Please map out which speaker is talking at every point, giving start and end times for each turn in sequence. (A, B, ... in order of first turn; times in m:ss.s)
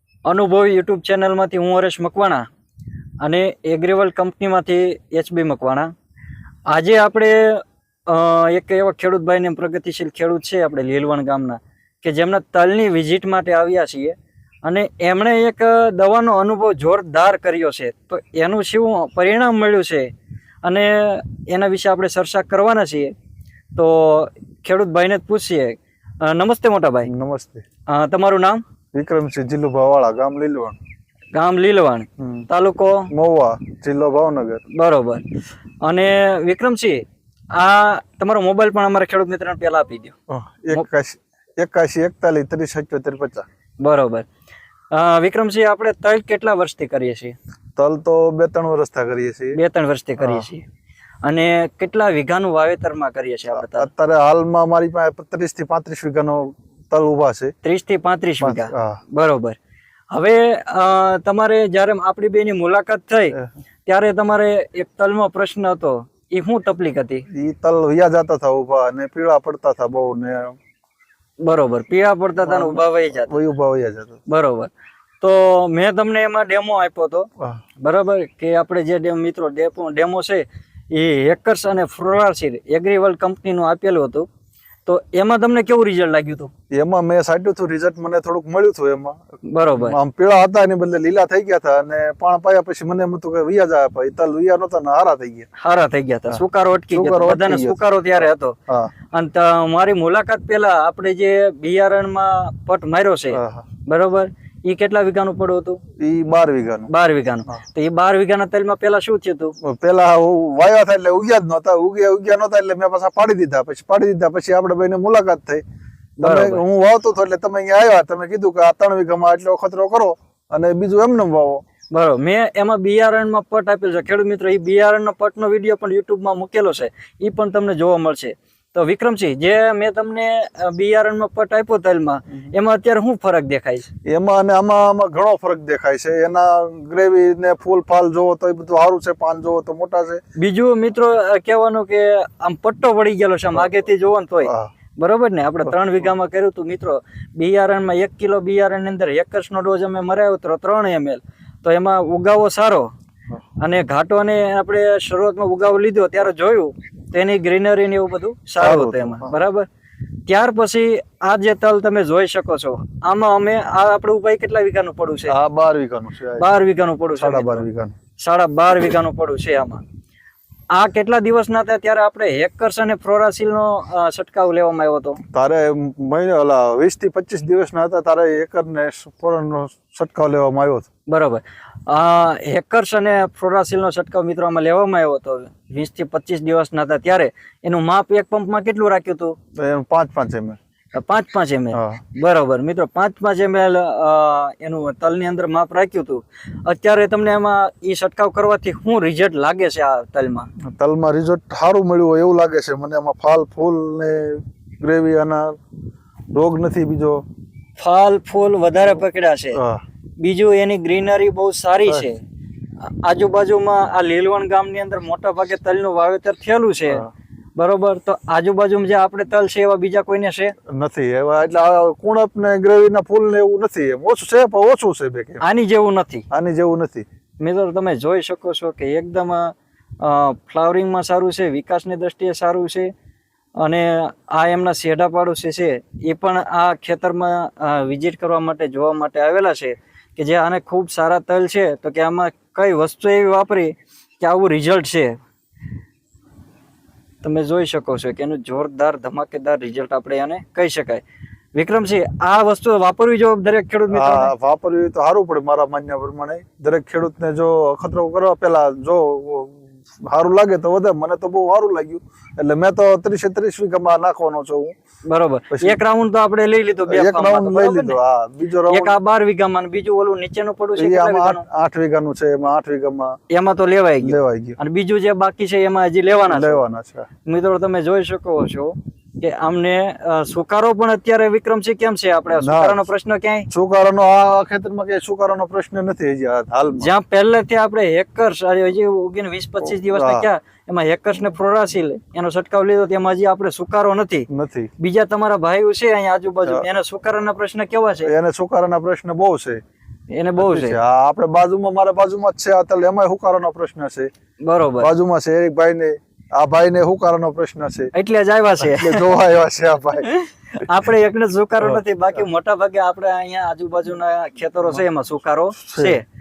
0:00.3-0:02.4 A
0:03.2-0:05.9 A
0:06.7-0:20.1 A
0:20.6-0:23.1 A
0:23.8-0:27.1 A
0:27.1-0:27.6 B
0:27.9-0:28.6 A
0:28.9-0:30.8 B
0:31.3-0:33.1 A
0:32.2-0:32.5 B
0:33.1-0:34.6 B
0:34.7-0:35.2 A
0:35.8-0:37.0 A
0:37.5-0:40.2 A
0:40.3-0:43.5 B
0:43.8-0:44.3 A
0:44.9-0:47.4 A
0:47.8-0:49.6 B
0:49.6-0:50.6 A
0:50.2-0:50.5 B
0:51.2-0:53.9 A
0:53.5-0:57.5 B
0:57.6-0:59.6 A
0:58.4-0:59.0 B
1:00.1-1:07.3 A
1:07.3-1:10.6 B
1:11.4-1:13.3 A
1:12.4-1:14.2 B
1:14.3-1:14.7 A
1:15.2-1:17.3 A
1:17.8-1:24.3 A
1:24.9-1:26.5 A
1:26.7-1:29.2 B
1:29.4-1:30.0 A
1:29.8-1:35.5 B
1:35.6-1:38.6 A
1:36.3-1:37.8 B
1:39.1-1:45.8 A
1:43.3-1:43.7 B
1:46.0-1:46.9 B
1:46.9-1:49.6 A
1:49.6-1:55.6 B
1:56.2-2:01.6 B
1:56.2-1:56.6 A
2:01.9-2:13.9 A
2:14.0-2:20.2 B
2:20.4-2:32.9 A
2:24.4-2:24.7 B
2:33.6-2:39.7 A
2:38.6-2:39.4 B
2:40.2-2:45.3 A
2:45.3-2:46.5 B
2:46.4-2:47.7 A
2:47.2-2:47.9 B
2:48.2-2:49.8 A
2:50.7-2:55.2 A
2:55.3-3:00.9 B
3:01.1-3:09.4 A
3:09.6-3:10.6 B
3:10.9-3:20.5 A
3:11.7-3:12.0 B
3:20.7-3:25.6 B
3:26.3-3:27.2 B
3:27.8-3:29.6 A
3:29.5-3:29.8 B
3:30.2-3:32.2 A
3:32.8-3:40.5 A
3:40.7-3:45.4 B
3:45.4-3:46.2 A
3:46.3-3:47.0 B
3:47.4-3:52.9 A
3:53.6-4:05.2 A
4:07.2-4:11.0 A
4:11.5-4:14.3 A
4:13.9-4:24.8 B
4:25.1-4:28.0 A
4:25.5-4:25.8 B
4:26.9-4:28.9 B
4:28.7-4:31.4 A
4:30.8-4:33.2 B
4:33.3-4:36.6 A
4:34.0-4:34.6 B
4:36.3-4:37.1 B
4:37.2-4:43.5 A
4:42.4-4:42.8 B
4:43.5-4:46.9 B
4:46.8-4:54.3 A
4:49.8-4:50.3 B
4:54.3-4:54.7 B
4:54.8-4:58.1 A
4:58.0-4:59.6 B
5:00.1-5:00.8 A
5:00.4-5:04.1 B
5:04.4-5:04.9 A
5:04.8-5:07.9 B
5:07.9-5:09.1 A
5:08.6-5:10.6 B
5:10.2-5:16.0 A
5:15.7-5:16.0 B